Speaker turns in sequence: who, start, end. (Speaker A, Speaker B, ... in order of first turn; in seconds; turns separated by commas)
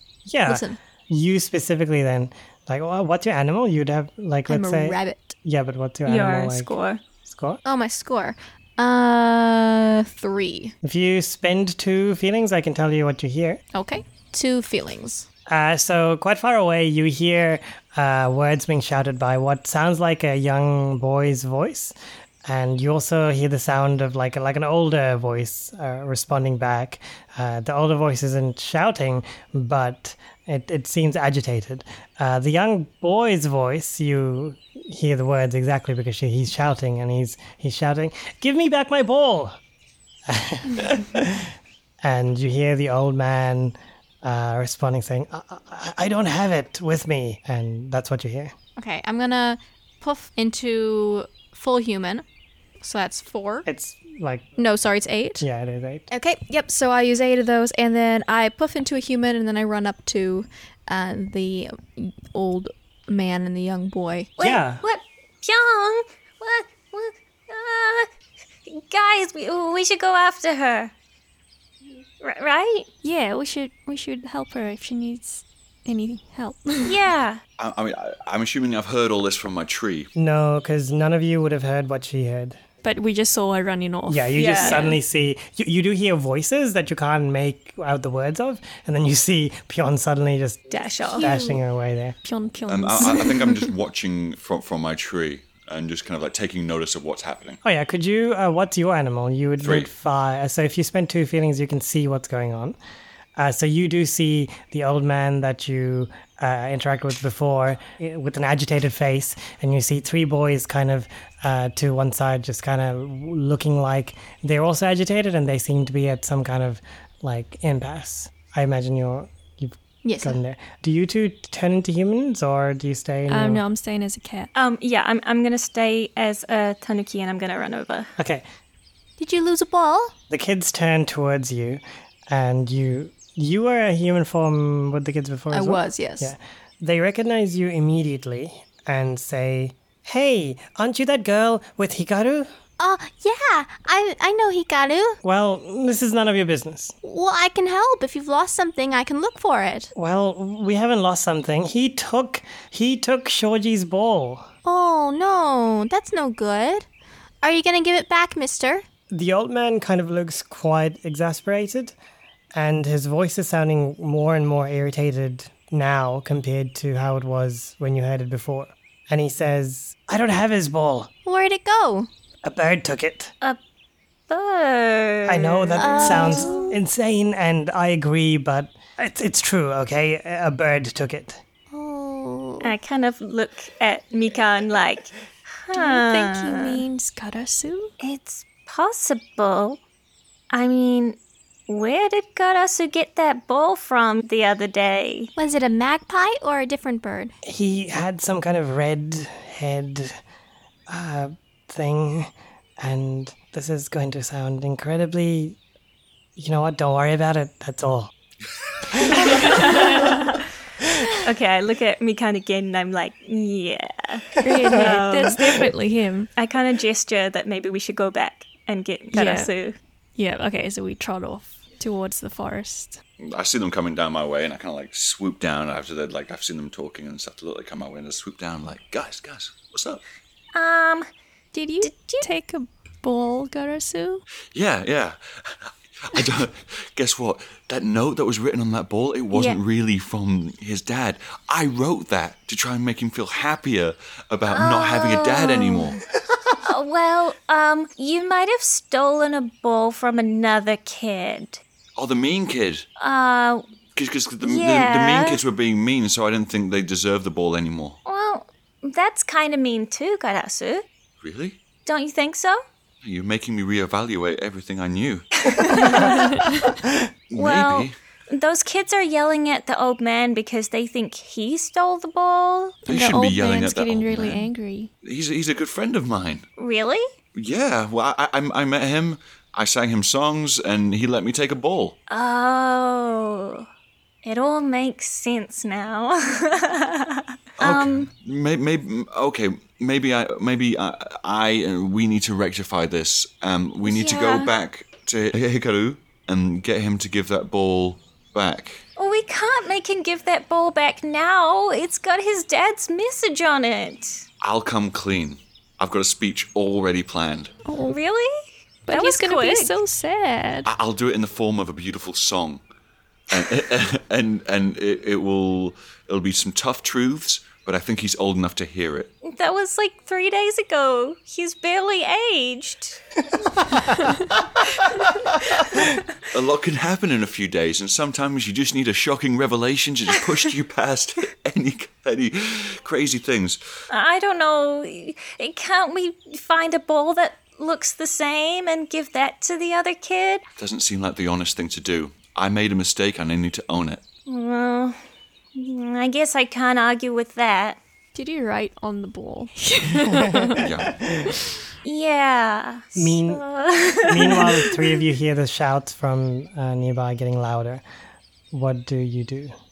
Speaker A: 0.3-7.6, Speaker B: 0.5-0.8, Speaker B: 4.5-5.4, Speaker C: 6.0-7.0, Speaker B: 7.6-10.7, Speaker A: 10.8-13.6, Speaker B: 13.7-15.3, Speaker A: 15.5-21.9, Speaker A: 22.4-39.6, Speaker A: 40.3-41.5, Speaker A: 42.0-48.5, Speaker B: 48.8-52.2, Speaker B: 52.8-53.6, Speaker A: 53.6-54.5, Speaker B: 54.6-55.5, Speaker A: 55.4-56.1, Speaker B: 56.1-64.3, Speaker A: 64.4-64.8, Speaker D: 64.4-68.1, Speaker D: 68.7-70.9, Speaker D: 72.2-72.8, Speaker E: 73.0-77.0, Speaker D: 76.8-77.4, Speaker F: 77.6-80.1, Speaker A: 80.2-82.6, Speaker E: 82.8-84.9, Speaker A: 84.1-92.2, Speaker C: 84.3-85.0, Speaker C: 90.7-91.3, Speaker E: 92.2-93.7, Speaker F: 92.7-97.6, Speaker A: 97.6-102.8, Speaker F: 99.6-99.9, Speaker A: 103.4-123.6, Speaker B: 120.0-120.4, Speaker E: 123.3-124.5, Speaker C: 124.5-128.1, Speaker A: 128.2-128.4, Speaker B: 129.2-130.1, Speaker A: 130.3-142.5, Speaker B: 135.5-136.3, Speaker B: 142.8-145.2, Speaker A: 145.2-146.9, Speaker B: 147.0-149.9, Speaker A: 149.9-154.5, Speaker B: 154.6-156.9, Speaker B: 157.4-158.8, Speaker A: 159.1-161.9, Speaker A: 162.5-171.1, Speaker B: 171.2-172.1, Speaker A: 172.4-173.3, Speaker D: 174.3-176.7, Speaker A: 175.2-181.4, Speaker B: 175.8-176.7, Speaker B: 181.7-182.7, Speaker C: 182.6-185.1, Speaker C: 185.7-186.7, Speaker E: 185.7-187.9, Speaker D: 188.0-189.8, Speaker D: 190.5-191.2, Speaker D: 191.7-195.3, Speaker C: 194.3-194.7, Speaker B: 195.4-197.3, Speaker A: 197.4-200.2, Speaker A: 200.9-205.6, Speaker A: 206.3-208.1, Speaker C: 209.1-210.4, Speaker C: 211.1-215.7, Speaker E: 214.4-216.3, Speaker C: 216.3-219.8, Speaker E: 219.1-219.5, Speaker E: 220.2-223.0, Speaker F: 223.2-230.0, Speaker D: 230.6-231.0, Speaker E: 231.5-234.2, Speaker F: 234.5-246.0, Speaker D: 244.6-245.9, Speaker D: 246.6-251.6, Speaker F: 251.9-252.9, Speaker D: 253.0-253.6, Speaker F: 253.9-258.0, Speaker D: 254.4-255.4, Speaker D: 258.0-260.8, Speaker F: 261.2-261.6, Speaker D: 261.8-262.6, Speaker F: 263.0-266.3, Speaker F: 267.3-267.9, Speaker D: 267.4-272.8, Speaker F: 272.9-274.4, Speaker E: 272.9-274.9, Speaker F: 275.0-276.5, Speaker D: 276.6-277.0, Speaker F: 277.3-282.0, Speaker D: 282.1-283.6, Speaker D: 284.2-286.0, Speaker C: 285.9-287.3, Speaker F: 287.6-298.9, Speaker D: 287.6-288.1, Speaker D: 293.9-294.5, Speaker D: 298.9-304.2, Speaker F: 304.4-307.5, Speaker E: 307.6-308.0, Speaker E: 308.9-310.7, Speaker F: 310.6-312.6, Speaker F: 313.3-319.1, Speaker D: 319.3-320.0, Speaker C: 319.5-321.4, Speaker D: 321.3-322.9, Speaker F: 326.3-333.6, Speaker D: 333.9-340.4, Speaker F: 340.6-344.0, Speaker D: 344.3-344.9, Speaker D: 345.5-347.8, Speaker E: 348.1-350.7, Speaker A: 350.1-350.4, Speaker F: 350.6-351.1, Speaker E: 351.3-351.5, Speaker D: 351.8-353.7, Speaker A: 352.9-353.4, Speaker C: 353.8-354.4, Speaker A: 354.0-357.8, Speaker A: 358.5-359.5